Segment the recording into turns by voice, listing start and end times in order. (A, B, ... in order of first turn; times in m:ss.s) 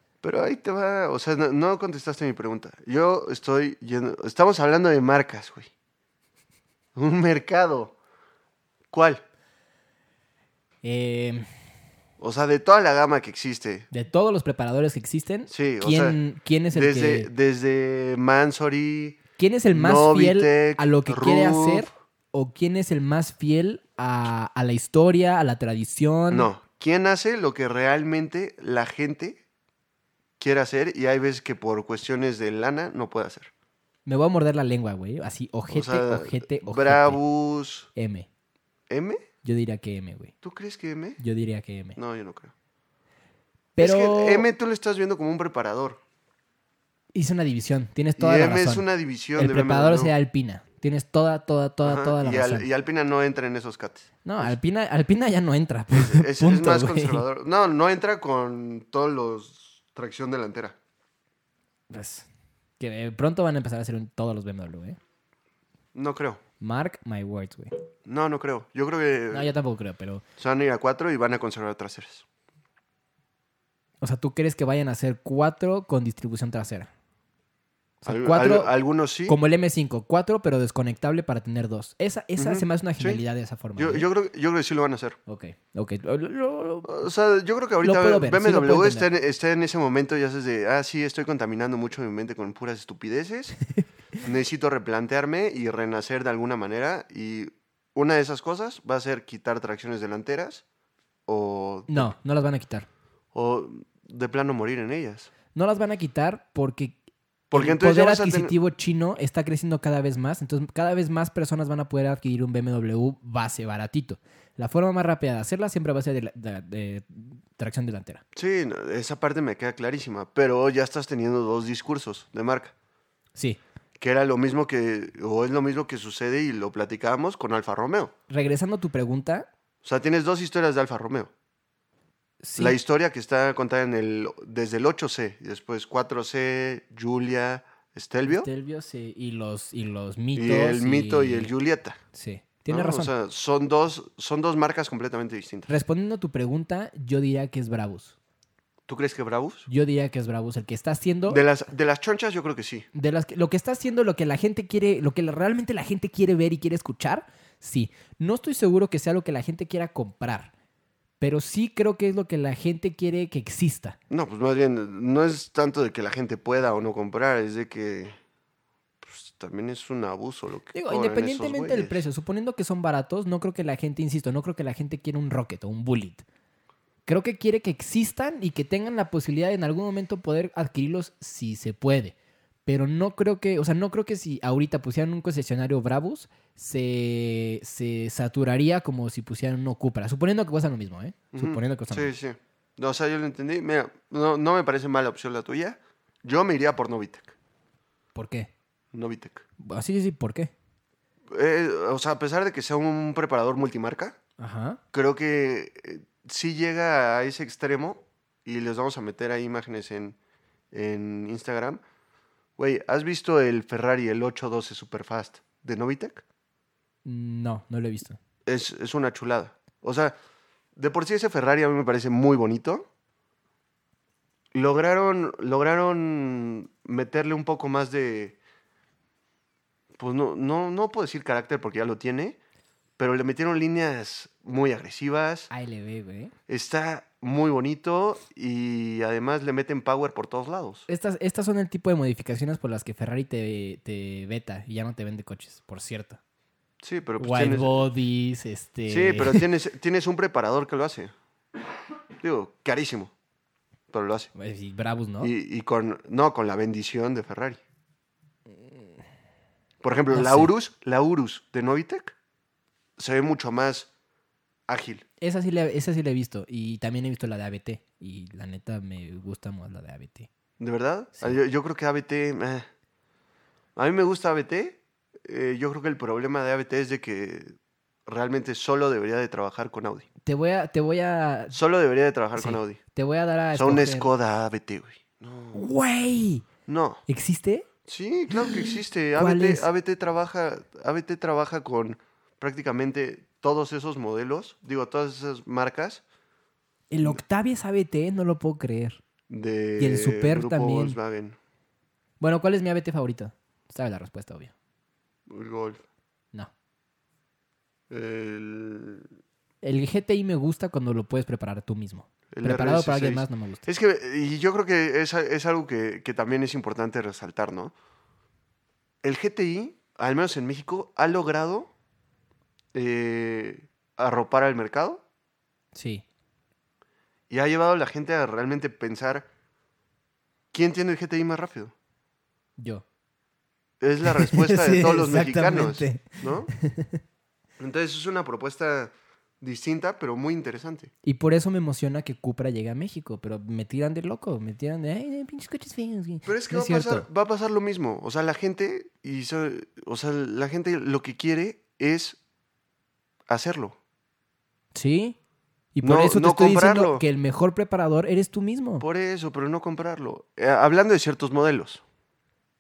0:00.2-0:05.7 A
0:07.0-0:08.0 A
0:08.9-0:09.2 A
0:10.8-0:11.5 B
0:12.2-0:13.9 A
0:13.9-0:17.3 B
0:15.5-0:16.2 A
0:16.7-0:19.2 A
0:19.4-0:26.5 B
0:19.7-0:21.9 A
0:26.3-0:29.4 A
0:30.4-0:33.5 A
0:34.1-0:37.2 B
0:35.7-0:37.9 A
0:38.0-0:38.3 B
0:38.9-0:39.2 A
0:39.4-0:40.3 B
0:40.4-0:41.2 A
0:41.2-0:42.0 B
0:42.0-0:42.5 A
0:43.8-0:44.5 B
0:43.8-0:46.0 A
0:47.1-0:52.7 B
0:48.2-0:50.1 A
0:51.8-0:54.6 A
0:54.2-0:57.2 B
0:55.9-1:00.8 A
1:01.9-1:02.3 B
1:02.8-1:05.0 B
1:05.9-1:06.4 A
1:06.6-1:07.7 B
1:08.1-1:09.5 A
1:09.3-1:10.2 B
1:10.4-1:12.2 A
1:14.0-1:16.9 B
1:18.0-1:18.7 B
1:18.0-1:19.4 A
1:19.3-1:24.1 B
1:22.4-1:23.2 A
1:23.8-1:25.2 A
1:25.3-1:27.0 B
1:26.8-1:33.6 A
1:27.8-1:29.1 B
1:34.2-1:40.6 A
1:41.3-1:42.1 A
1:41.9-1:42.9 B
1:43.3-1:45.3 A
1:45.6-1:47.0 B
1:47.5-1:48.5 A
1:47.5-1:58.2 B
1:58.3-2:02.7 A
2:04.0-2:08.1 A
2:08.3-2:09.5 B
2:09.8-2:11.3 A
2:12.4-2:12.8 B
2:12.6-2:18.5 A
2:18.3-2:21.5 B
2:20.4-2:22.0 A
2:22.1-2:23.1 B
2:22.7-2:25.7 A
2:25.7-2:28.2 B
2:28.9-2:29.7 A
2:29.7-2:31.4 B
2:31.3-2:32.9 A
2:32.9-2:40.5 B
2:41.2-2:44.0 B
2:44.1-2:48.2 A
2:49.0-2:52.0 A
2:50.7-2:56.2 B
2:57.1-3:02.2 B
3:02.7-3:12.1 B
3:11.3-3:17.3 A
3:18.2-3:18.5 B
3:18.9-3:19.4 A
3:19.6-3:20.5 B
3:21.3-3:24.2 A
3:24.4-3:24.8 B
3:24.9-3:30.2 A
3:30.7-3:31.8 A
3:32.6-3:36.2 A
3:37.0-3:38.2 B
3:38.5-3:40.2 A
3:40.8-3:42.9 A
3:44.5-3:48.4 A
3:50.0-3:52.4 A
3:53.0-3:55.5 A
3:55.5-3:56.3 B
3:56.5-4:00.9 A
4:00.9-4:06.2 B
4:06.8-4:07.9 A
4:07.2-4:09.5 B
4:08.9-4:11.1 A
4:12.2-4:13.1 A
4:13.9-4:14.3 A
4:14.3-4:15.3 B
4:15.2-4:17.6 A
4:19.8-4:22.2 A
4:20.1-4:20.5 B
4:23.0-4:23.9 A
4:24.7-4:25.0 A
4:25.2-4:30.3 B
4:30.6-4:32.7 A
4:33.8-4:40.1 A
4:40.2-4:41.6 B
4:41.5-4:42.8 A
4:42.4-4:44.1 B
4:43.5-4:45.7 A
4:45.5-4:46.5 B
4:46.7-4:47.0 A
4:47.1-4:47.7 B
4:47.8-4:56.0 A
4:48.4-4:49.7 B
4:56.9-4:59.0 B
4:59.3-5:01.4 A
4:59.8-5:01.0 B
5:02.2-5:04.5 B
5:05.3-5:05.8 A
5:07.9-5:09.1 A
5:09.6-5:13.7 B
5:12.3-5:17.7 A
5:19.0-5:21.7 A
5:22.7-5:25.0 A
5:25.7-5:26.0 B
5:27.3-5:29.3 A
5:30.5-5:31.7 A
5:32.6-5:32.8 B
5:33.8-5:36.5 A
5:34.0-5:37.0 B
5:37.6-5:40.9 A
5:41.0-5:47.1 B
5:46.2-5:52.2 A
5:53.3-5:53.8 A
5:54.7-5:55.2 B
5:55.7-5:58.8 B
5:55.8-5:57.0 A
5:58.8-6:01.8 A